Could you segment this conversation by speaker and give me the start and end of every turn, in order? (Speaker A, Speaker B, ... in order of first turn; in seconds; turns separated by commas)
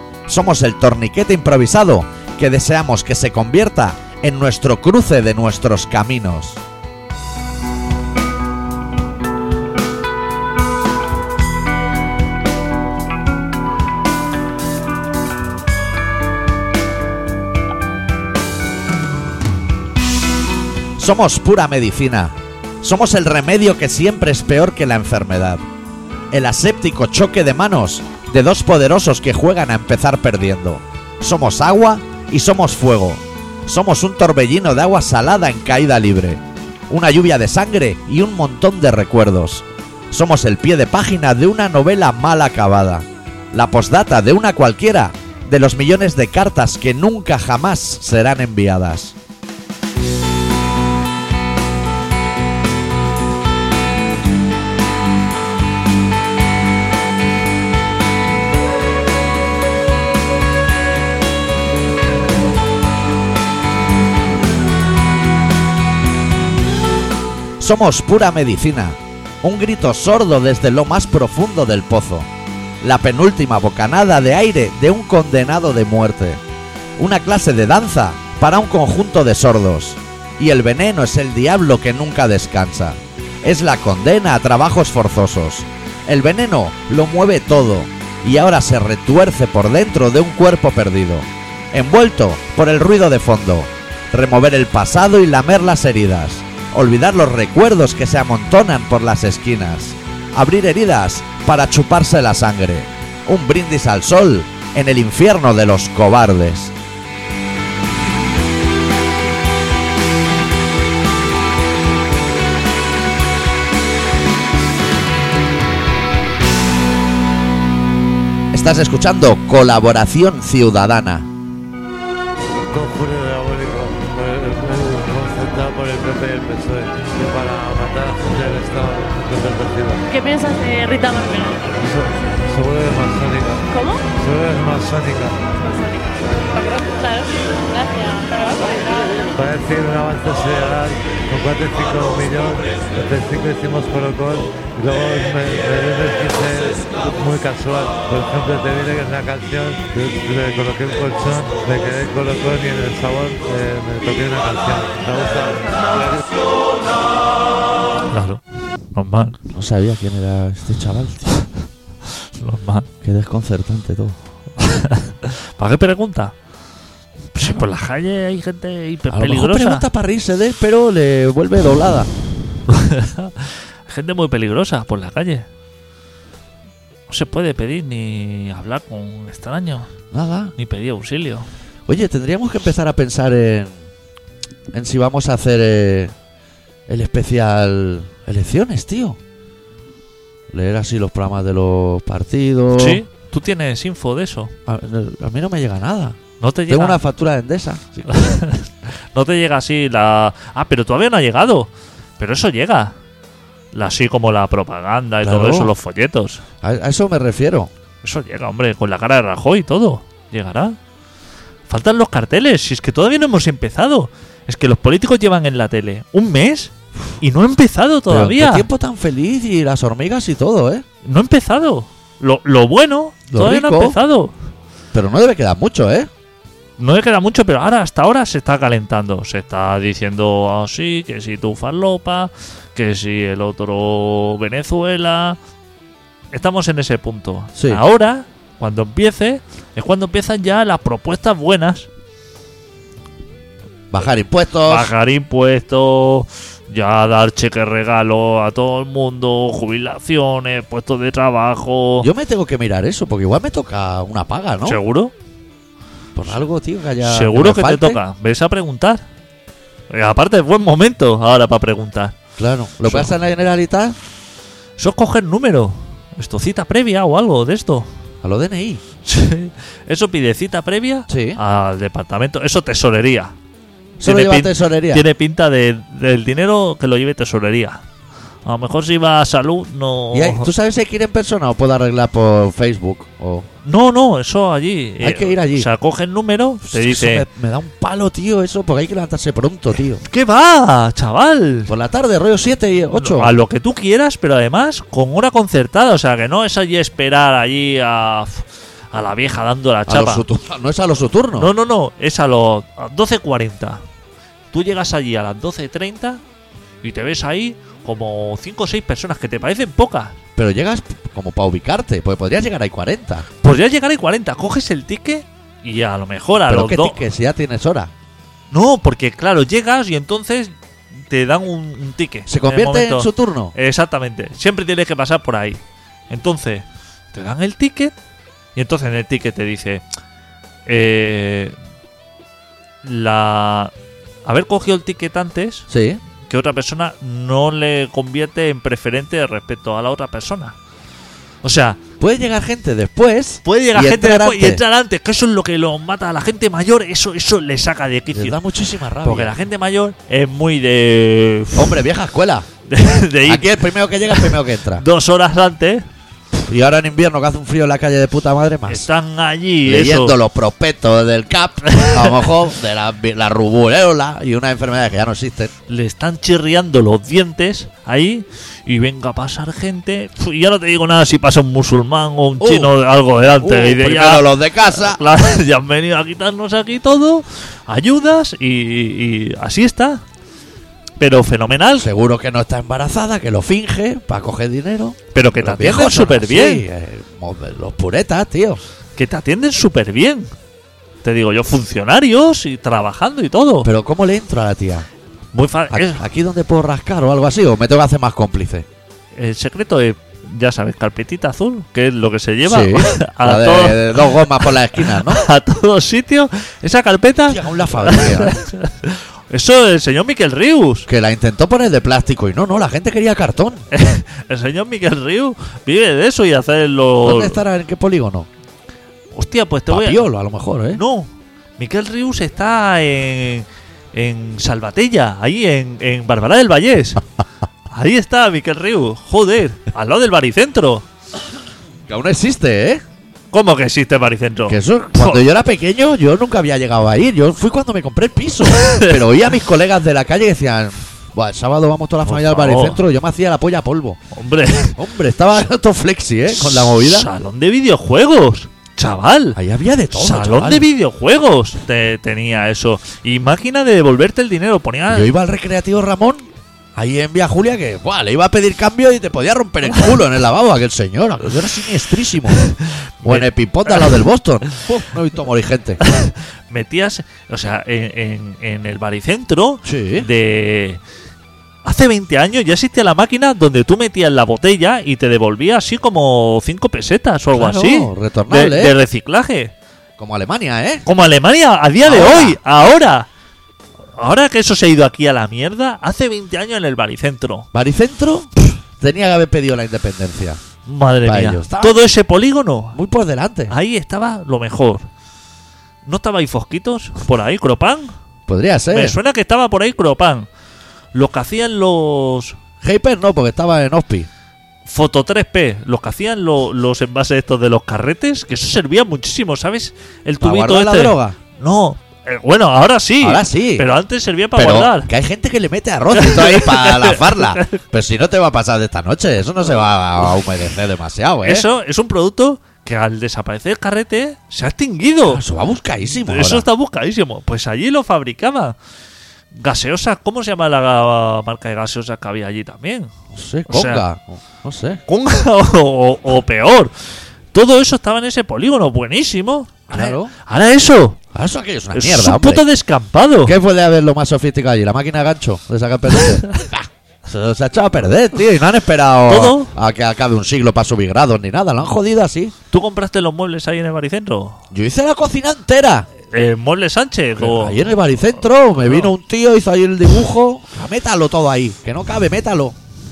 Speaker A: 0.3-6.6, Speaker A: 21.0-25.6, Speaker A: 26.3-49.1, Speaker A: 67.6-72.3, Speaker A: 72.8-76.4, Speaker A: 77.0-106.8, Speaker A: 118.5-121.3, Speaker B: 122.7-130.0, Speaker C: 130.1-131.7, Speaker B: 131.8-135.5, Speaker C: 133.7-134.1, Speaker C: 135.6-139.1, Speaker B: 139.3-156.4, Speaker D: 158.1-158.4, Speaker D: 158.9-159.4, Speaker A: 159.5-161.3, Speaker D: 162.4-162.9, Speaker A: 163.0-164.2, Speaker D: 164.6-166.3, Speaker D: 167.3-169.8, Speaker A: 169.1-172.1, Speaker D: 172.7-175.5, Speaker D: 177.1-179.9, Speaker A: 180.1-180.6, Speaker D: 180.6-181.5, Speaker A: 181.9-183.8, Speaker A: 184.7-186.1, Speaker A: 186.9-189.2, Speaker A: 190.5-193.0, Speaker D: 192.7-194.5, Speaker A: 194.7-198.3, Speaker D: 196.4-197.0, Speaker D: 198.1-203.0, Speaker D: 203.7-206.4, Speaker A: 205.2-205.7, Speaker A: 206.6-207.7, Speaker D: 208.0-210.8, Speaker D: 211.7-218.7, Speaker A: 218.1-220.8, Speaker D: 221.1-224.3, Speaker A: 223.3-224.0, Speaker A: 224.9-226.1, Speaker D: 226.8-235.4, Speaker D: 236.3-241.9, Speaker A: 237.6-237.8, Speaker A: 243.9-244.9, Speaker D: 244.7-252.1, Speaker A: 252.0-254.8, Speaker D: 254.7-255.1, Speaker A: 256.2-258.0, Speaker D: 257.0-259.1, Speaker D: 259.9-262.2, Speaker A: 262.4-264.0, Speaker D: 262.9-263.1, Speaker D: 264.8-267.9, Speaker A: 268.2-268.8, Speaker D: 269.0-273.4, Speaker A: 271.1-271.4, Speaker A: 274.0-275.1, Speaker D: 274.0-277.8, Speaker D: 278.5-280.5, Speaker A: 280.1-283.5, Speaker D: 283.6-287.3, Speaker A: 285.0-285.7, Speaker A: 286.6-290.0, Speaker D: 290.0-291.7, Speaker A: 291.7-293.4, Speaker D: 292.9-300.2, Speaker A: 299.9-301.5, Speaker D: 301.4-303.8, Speaker D: 304.5-306.2, Speaker D: 306.8-310.2, Speaker A: 310.4-313.2, Speaker D: 313.4-317.0, Speaker A: 316.5-317.9, Speaker D: 318.5-320.6, Speaker D: 321.1-327.9, Speaker A: 322.3-323.5, Speaker D: 328.6-329.8, Speaker D: 330.7-331.6, Speaker D: 332.8-333.7, Speaker D: 334.2-335.7, Speaker A: 335.7-336.0, Speaker D: 336.3-340.6, Speaker D: 341.4-341.8, Speaker A: 342.0-344.6, Speaker D: 343.4-348.4, Speaker A: 348.1-349.4, Speaker D: 349.0-351.8, Speaker A: 351.6-352.5, Speaker D: 352.7-355.9, Speaker A: 353.3-354.9, Speaker A: 356.3-358.9, Speaker D: 358.7-360.2, Speaker A: 359.6-365.5, Speaker D: 361.7-362.2, Speaker D: 365.7-380.0, Speaker A: 372.4-372.7, Speaker A: 373.3-375.0, Speaker D: 381.0-381.9, Speaker A: 381.8-388.6, Speaker D: 385.1-386.6, Speaker D: 389.0-390.3, Speaker D: 391.0-393.7, Speaker A: 393.6-394.9, Speaker D: 395.3-396.0, Speaker A: 395.7-398.7, Speaker D: 399.2-410.9, Speaker A: 402.4-405.2, Speaker A: 407.3-408.4, Speaker A: 410.9-413.7, Speaker D: 413.7-417.4, Speaker A: 417.0-418.3, Speaker D: 419.1-420.1, Speaker A: 419.7-420.8, Speaker D: 420.7-427.0, Speaker D: 427.7-430.9, Speaker A: 431.9-432.8, Speaker D: 433.3-435.2, Speaker A: 434.5-444.0, Speaker D: 438.6-439.0, Speaker D: 442.1-442.8, Speaker D: 444.1-444.8, Speaker A: 444.8-447.1, Speaker D: 446.6-449.4, Speaker A: 449.4-450.7, Speaker D: 449.9-455.1, Speaker A: 454.9-462.5, Speaker D: 463.0-464.0, Speaker A: 463.0-465.8, Speaker D: 465.8-470.8, Speaker A: 469.6-470.1, Speaker D: 471.6-479.5, Speaker A: 477.3-478.7, Speaker A: 480.0-480.9, Speaker D: 480.9-483.1, Speaker A: 481.9-482.4, Speaker D: 484.0-487.5, Speaker A: 487.5-490.4, Speaker D: 490.6-492.8, Speaker A: 491.1-491.8, Speaker A: 492.7-493.6, Speaker D: 493.5-494.9, Speaker D: 495.9-497.9, Speaker A: 498.3-499.0, Speaker D: 498.7-500.3, Speaker D: 500.9-502.4, Speaker A: 502.6-504.1, Speaker D: 504.7-514.9, Speaker A: 510.2-511.2, Speaker A: 513.0-513.7, Speaker A: 514.4-521.5, Speaker D: 515.9-517.6, Speaker D: 521.2-525.2, Speaker A: 525.1-526.5, Speaker D: 525.8-528.5, Speaker D: 529.3-532.9, Speaker A: 533.1-534.8, Speaker D: 533.5-533.8, Speaker D: 534.9-536.7, Speaker D: 537.3-541.0, Speaker A: 539.7-540.1, Speaker A: 541.1-542.4, Speaker D: 541.7-543.4, Speaker A: 543.2-552.3, Speaker D: 549.1-549.5, Speaker D: 552.5-554.4, Speaker A: 554.5-555.9, Speaker D: 556.1-557.7, Speaker A: 557.2-562.6, Speaker D: 558.6-558.9